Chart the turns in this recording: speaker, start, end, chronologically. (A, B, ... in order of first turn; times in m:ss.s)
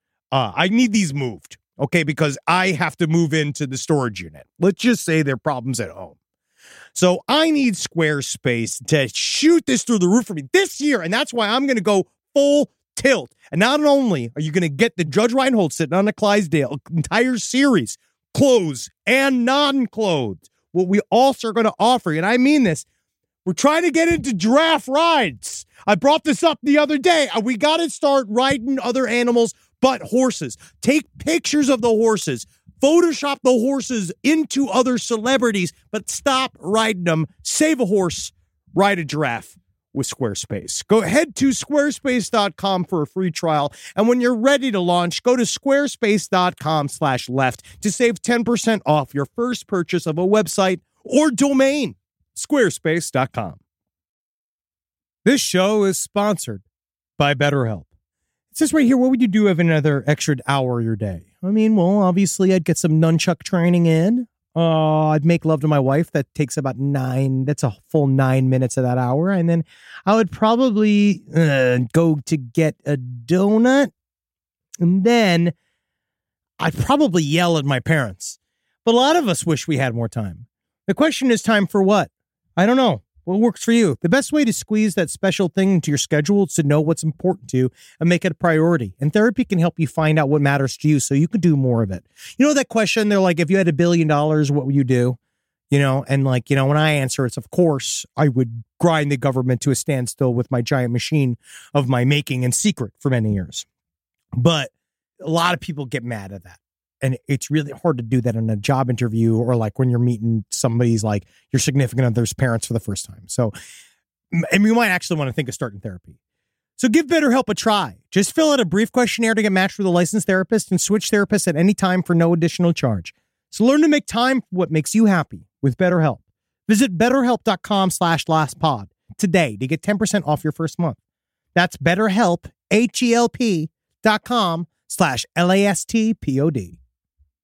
0:00.3-0:06.1 A
0:06.9-0:22.8 A
0:23.4-0:53.6 A
0:55.2-0:56.6 A
0:57.2-0:57.9 A
0:58.5-1:13.9 A
1:14.8-1:15.5 A
1:16.6-1:35.2 A
1:35.7-1:43.6 A
1:44.4-1:53.5 A
1:54.3-1:56.1 A
1:56.8-2:11.0 A
2:11.5-2:16.8 A